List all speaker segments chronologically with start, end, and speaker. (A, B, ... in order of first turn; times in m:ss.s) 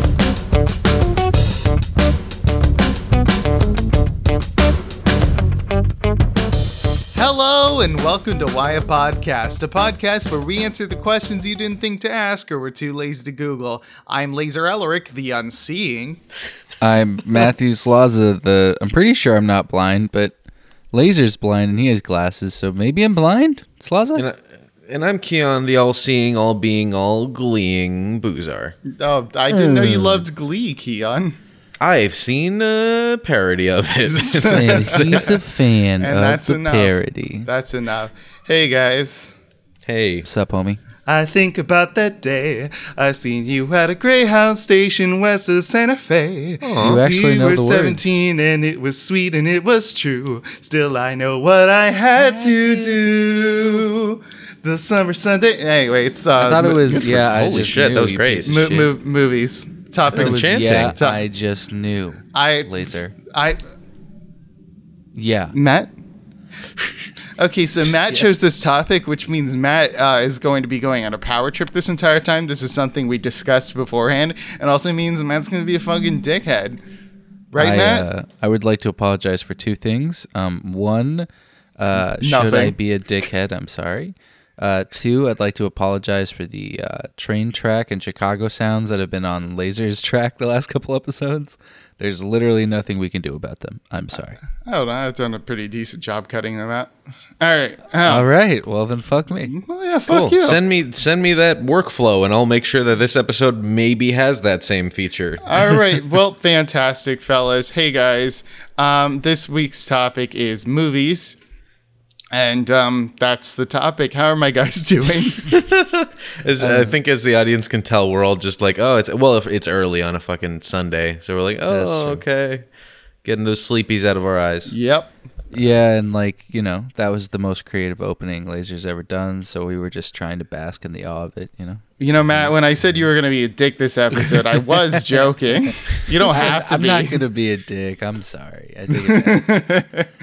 0:07.1-0:16.2 A
0:16.8-0:20.3 B
0:20.9-0:24.2 B
0:24.2-0:28.8 C
0:28.8-0:31.4 A
0:29.5-0:30.2 B
0:31.8-0:35.4 C
0:34.1-0:35.4 A
0:34.5-0:37.5 B
0:36.0-0:39.3 A
0:39.8-0:40.2 C
0:40.2-0:40.8 B
0:41.1-0:57.2 A
0:46.6-0:47.0 C
0:46.8-0:48.2 B
0:56.4-0:58.9 B
0:57.1-0:58.5 C
0:58.5-1:01.2 A
1:00.1-1:01.0 C
1:00.1-1:03.1 B
1:02.3-1:03.6 A
1:05.1-1:05.6 B
1:05.5-1:05.9 A
1:07.4-1:16.8 A
1:17.5-1:18.0 A
1:17.6-1:34.4 B
1:22.2-1:22.7 A
1:34.6-1:38.2 A
1:38.0-1:39.5 B
1:39.4-1:40.6 A
1:40.1-1:45.8 C
1:45.4-1:51.4 A
1:52.3-1:55.6 A
1:55.5-2:02.6 C
2:01.7-2:02.2 B
2:03.2-2:04.7 C
2:04.7-2:05.1 A
2:05.5-2:11.8 B
2:12.0-2:17.2 A
2:14.2-2:15.0 B
2:16.2-2:19.5 B
2:18.9-2:20.1 A